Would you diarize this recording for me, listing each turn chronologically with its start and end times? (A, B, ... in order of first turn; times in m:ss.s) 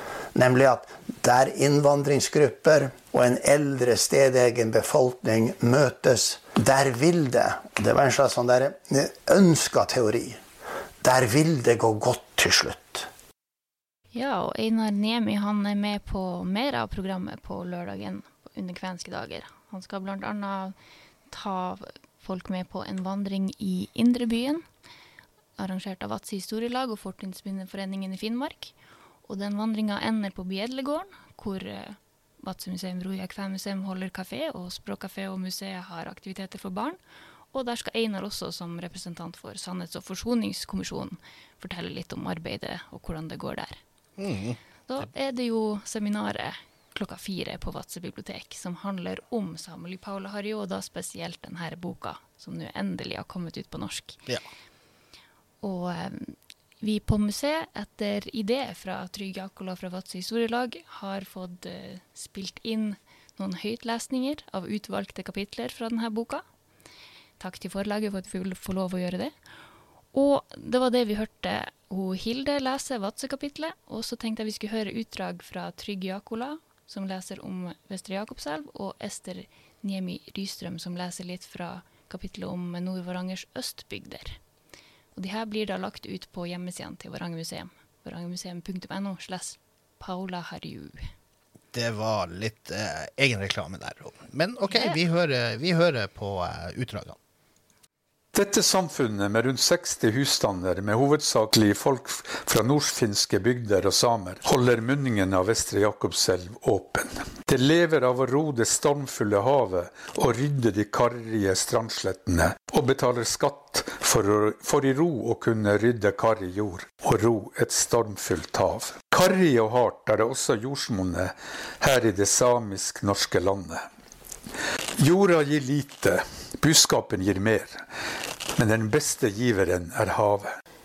0:00.3-0:10.4 A
0:11.0-0:13.1 A
0:14.1-0:20.7 B
0:21.3-0:24.6 B
0:25.6-0:28.7 B
0:29.2-0:37.0 B
0:37.5-0:43.8 B
0:44.2-0:44.6 C
0:44.9-0:54.2 B
0:55.6-1:06.4 B
1:07.4-1:09.3 B
1:10.1-1:24.4 B
1:25.1-1:31.1 B
1:31.7-1:37.2 C
1:34.7-1:35.0 B
1:38.3-2:03.8 D
2:05.0-2:07.8 D
2:08.6-2:10.6 D